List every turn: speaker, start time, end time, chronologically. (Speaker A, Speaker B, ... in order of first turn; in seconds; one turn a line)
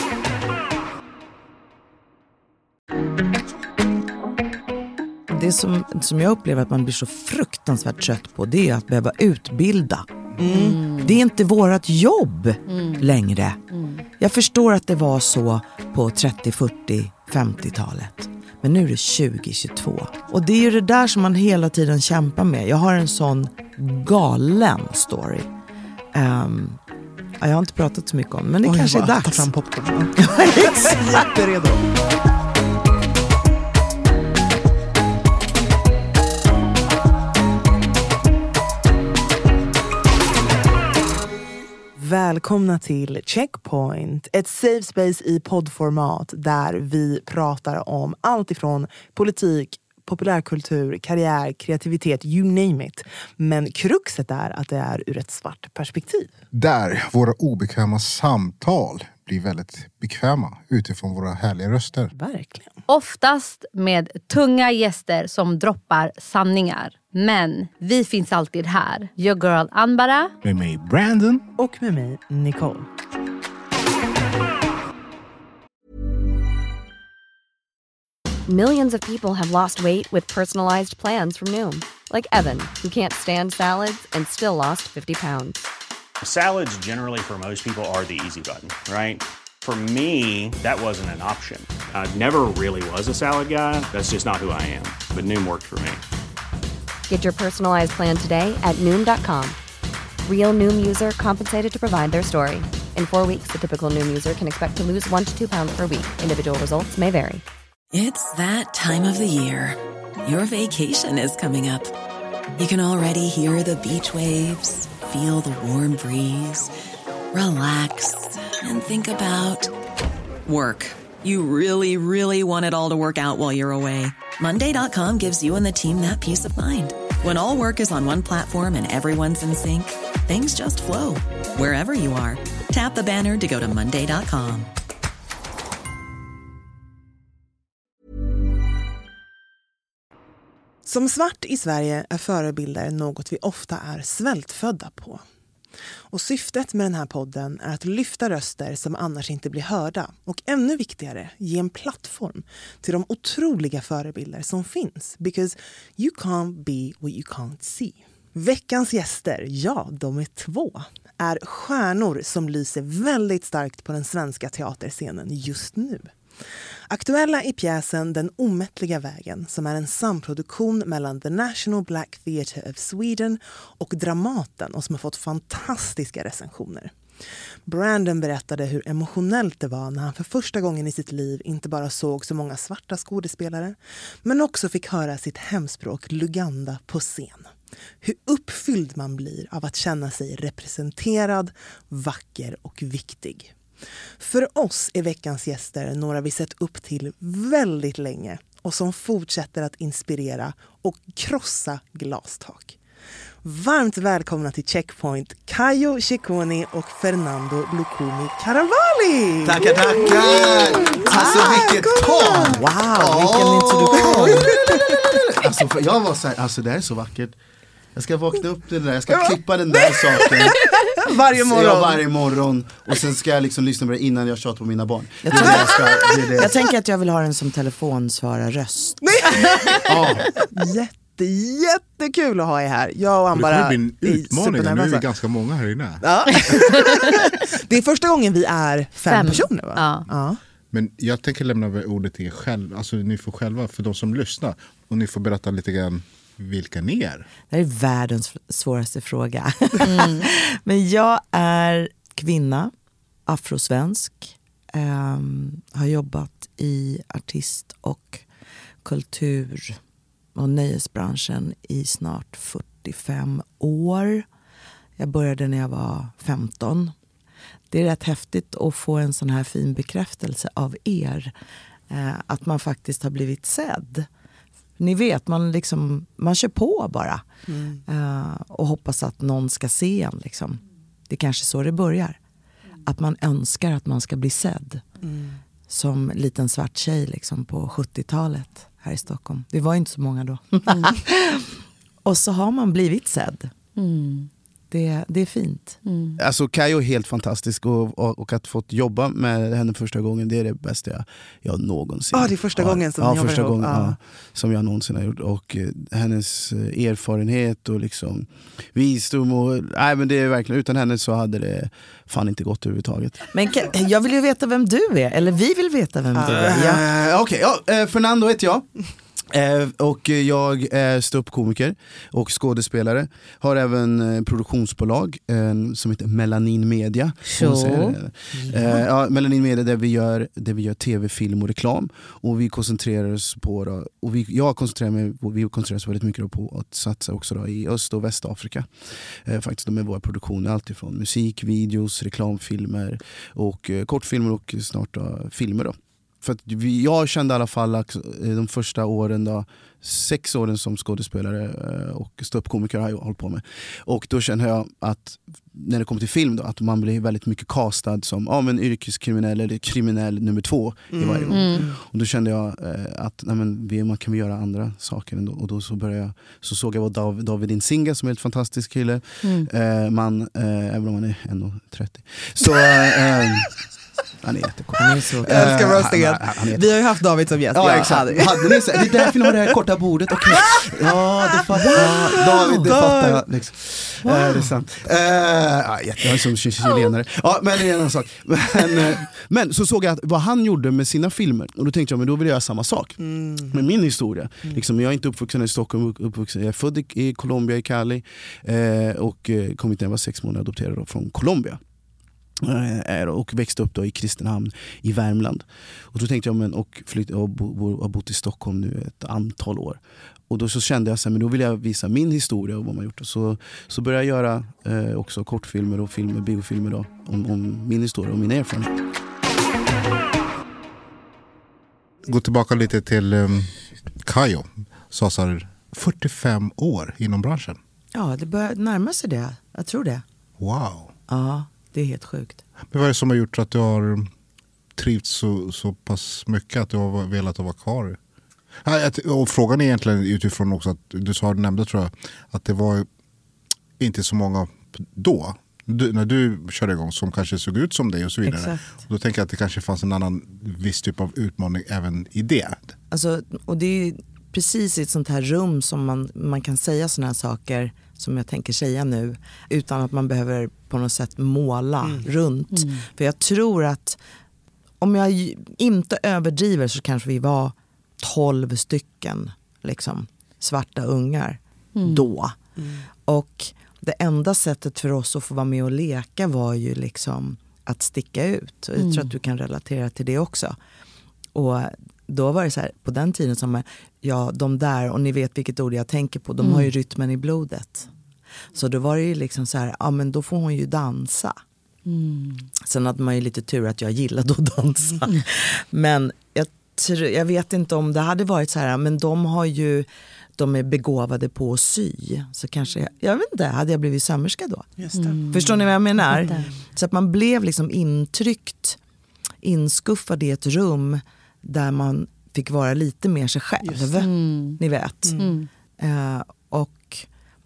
Speaker A: 5.3-10.1
Speaker B: 10.4-10.8
Speaker C: 10.5-11.1
Speaker A: 10.8-13.6
Speaker C: 12.7-13.1
Speaker A: 14.2-25.5
Speaker A: 26.1-26.8
Speaker A: 27.4-29.5
Speaker B: 28.6-31.8
Speaker A: 30.2-30.9
Speaker B: 42.0-56.3
Speaker D: 56.5-62.1
Speaker B: 62.1-62.8
Speaker C: 62.9-70.3
Speaker D: 70.4-71.4
Speaker B: 71.6-72.9
Speaker E: 78.5-85.6
Speaker F: 86.2-96.0
Speaker E: 97.1-99.6
Speaker E: 100.2-107.4
Speaker G: 107.9-111.9
Speaker G: 112.6-116.7
Speaker G: 117.3-119.7
Speaker G: 120.5-134.7
Speaker B: 140.8-145.2
Speaker B: 146.1-166.1
Speaker B: 166.9-176.9
Speaker B: 177.7-193.5
Speaker B: 194.2-202.8
Speaker B: 203.4-215.0
Speaker H: 209.4-217.3
Speaker H: 217.9-220.6
Speaker B: 219.9-222.0
Speaker H: 221.3-226.5
Speaker A: 225.2-225.8
Speaker B: 225.4-226.4
Speaker A: 226.3-229.0
Speaker B: 229.0-229.9
Speaker B: 230.5-235.0
Speaker D: 233.3-236.5
Speaker B: 236.0-240.4
Speaker C: 239.1-240.0
Speaker D: 240.7-247.3
Speaker A: 247.5-252.7
Speaker C: 249.8-250.3
Speaker A: 253.2-258.2
Speaker A: 258.8-259.8
Speaker A: 260.3-264.2
Speaker A: 265.0-266.9
Speaker A: 267.7-271.3
Speaker A: 271.9-274.1
Speaker A: 274.8-277.2
Speaker B: 277.5-277.8
Speaker A: 277.9-282.2
Speaker A: 282.8-284.8
Speaker B: 285.0-285.4
Speaker A: 285.7-293.5
Speaker C: 293.8-294.3
Speaker A: 294.7-295.8
Speaker C: 295.8-296.2
Speaker H: 296.2-313.2
Speaker B: 302.1-304.0
Speaker A: 313.3-316.8
Speaker B: 316.1-316.8
Speaker H: 316.3-318.7
Speaker H: 319.3-373.5
Speaker C: 327.3-328.0
Speaker B: 360.9-361.6
Speaker C: 361.3-361.7
Speaker C: 369.2-369.5
Speaker H: 374.2-376.9
Speaker A: 374.8-375.5
Speaker B: 375.2-379.3
Speaker H: 377.5-401.6
Speaker B: 381.5-383.2
Speaker C: 384.0-384.4
Speaker B: 393.0-393.6
Speaker H: 402.4-418.7
Speaker D: 422.0-427.6
Speaker A: 427.9-430.0
Speaker D: 430.4-430.9
Speaker A: 431.1-432.4
Speaker D: 432.7-434.1
Speaker D: 434.8-438.0
Speaker D: 438.6-442.9
Speaker D: 443.8-452.7
Speaker A: 448.2-448.8
Speaker A: 452.9-464.0
Speaker B: 461.8-462.1
Speaker C: 462.5-462.8
Speaker A: 464.8-472.4
Speaker C: 471.8-472.1
Speaker B: 472.6-472.8
Speaker A: 473.1-480.6
Speaker C: 478.8-479.1
Speaker A: 481.3-487.9
Speaker C: 486.4-486.7
Speaker A: 488.5-491.4
Speaker C: 491.9-492.5
Speaker A: 492.6-504.7
Speaker B: 504.8-505.2
Speaker C: 504.9-505.6
Speaker A: 505.3-508.8
Speaker B: 506.2-506.5
Speaker A: 509.4-515.2
Speaker B: 513.6-513.9
Speaker C: 514.0-514.6
Speaker B: 515.0-515.3
Speaker C: 515.2-515.5
Speaker A: 515.8-517.1